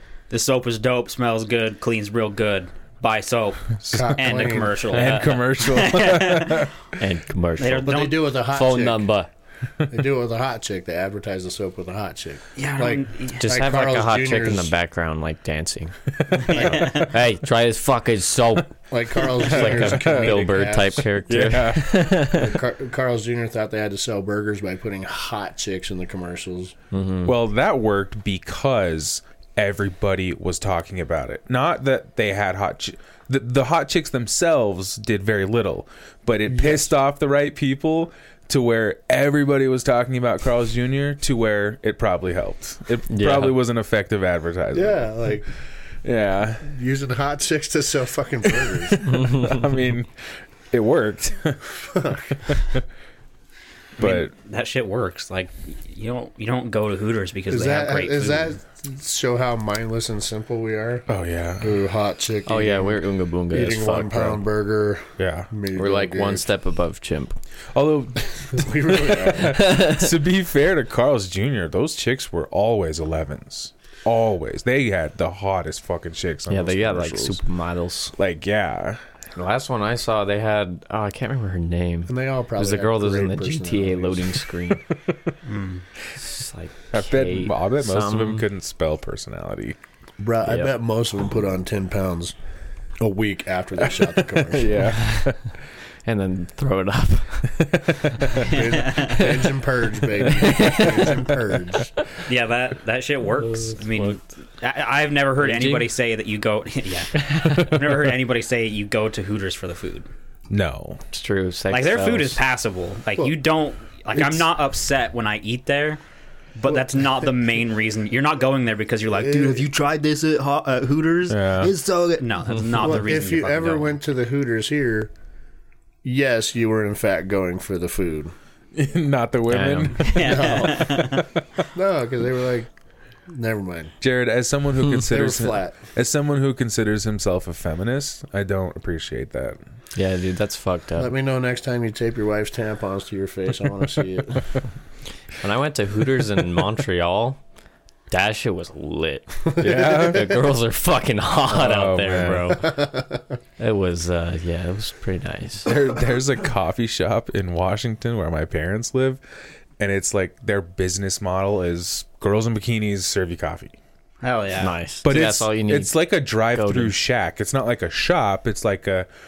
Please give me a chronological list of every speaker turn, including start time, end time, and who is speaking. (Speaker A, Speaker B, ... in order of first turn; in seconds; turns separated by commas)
Speaker A: 0.3-6.7, Speaker B: 3.8-6.7, Speaker C: 3.9-4.8, Speaker D: 4.9-5.3, Speaker D: 7.0-9.3, Speaker A: 7.6-8.2, Speaker C: 7.8-9.1, Speaker C: 9.9-14.7, Speaker A: 12.6-13.5, Speaker D: 13.4-22.6, Speaker B: 16.3-16.6, Speaker A: 16.4-17.1, Speaker C: 16.5-16.9, Speaker C: 18.9-21.1, Speaker B: 19.5-20.4, Speaker B: 21.3-22.2, Speaker C: 22.3-26.7, Speaker D: 26.9-27.3, Speaker B: 27.2-45.1, Speaker C: 36.5-36.9, Speaker D: 43.1-43.6, Speaker C: 44.7-45.5, Speaker B: 46.0-46.7, Speaker C: 46.6-49.1, Speaker B: 49.0-50.1, Speaker B: 50.7-52.8, Speaker C: 51.8-52.4, Speaker B: 54.0-54.3, Speaker A: 54.0-58.5, Speaker C: 57.5-61.0, Speaker B: 61.1-61.7, Speaker C: 61.6-66.5, Speaker D: 62.5-64.4, Speaker B: 65.2-65.5, Speaker D: 65.7-67.3, Speaker B: 67.7-77.4, Speaker C: 68.4-69.8, Speaker D: 69.6-70.0, Speaker D: 76.5-78.1, Speaker B: 78.1-79.0, Speaker D: 79.3-84.8, Speaker C: 82.1-84.4, Speaker A: 85.4-85.8, Speaker D: 86.2-88.4, Speaker B: 86.9-89.8, Speaker C: 90.2-92.3, Speaker D: 90.5-90.7, Speaker C: 93.0-94.8, Speaker B: 94.3-95.5, Speaker D: 96.0-97.8, Speaker B: 97.6-98.5, Speaker C: 98.3-101.9, Speaker A: 98.5-99.4, Speaker D: 100.3-101.3, Speaker A: 102.2-110.1, Speaker D: 103.4-104.2, Speaker D: 105.4-105.8, Speaker B: 110.5-111.0, Speaker D: 111.1-112.4, Speaker A: 111.7-116.0, Speaker A: 116.5-123.9, Speaker C: 119.2-119.6, Speaker B: 121.3-121.7, Speaker C: 122.7-125.1, Speaker C: 126.0-128.3, Speaker B: 128.7-131.2, Speaker D: 129.5-130.1, Speaker A: 130.0-131.3, Speaker C: 130.1-131.1, Speaker C: 131.7-132.7, Speaker C: 133.3-133.9, Speaker B: 134.0-139.6, Speaker C: 135.0-135.8, Speaker D: 139.9-141.1, Speaker C: 141.0-144.4, Speaker D: 145.4-147.4, Speaker D: 148.1-152.9, Speaker C: 149.6-150.4, Speaker B: 149.6-150.4, Speaker B: 151.5-152.5, Speaker C: 152.6-153.2, Speaker D: 153.6-155.7, Speaker B: 155.6-159.2, Speaker B: 159.8-163.7, Speaker A: 164.2-164.8, Speaker D: 164.6-166.0, Speaker B: 165.0-169.1, Speaker D: 166.5-166.9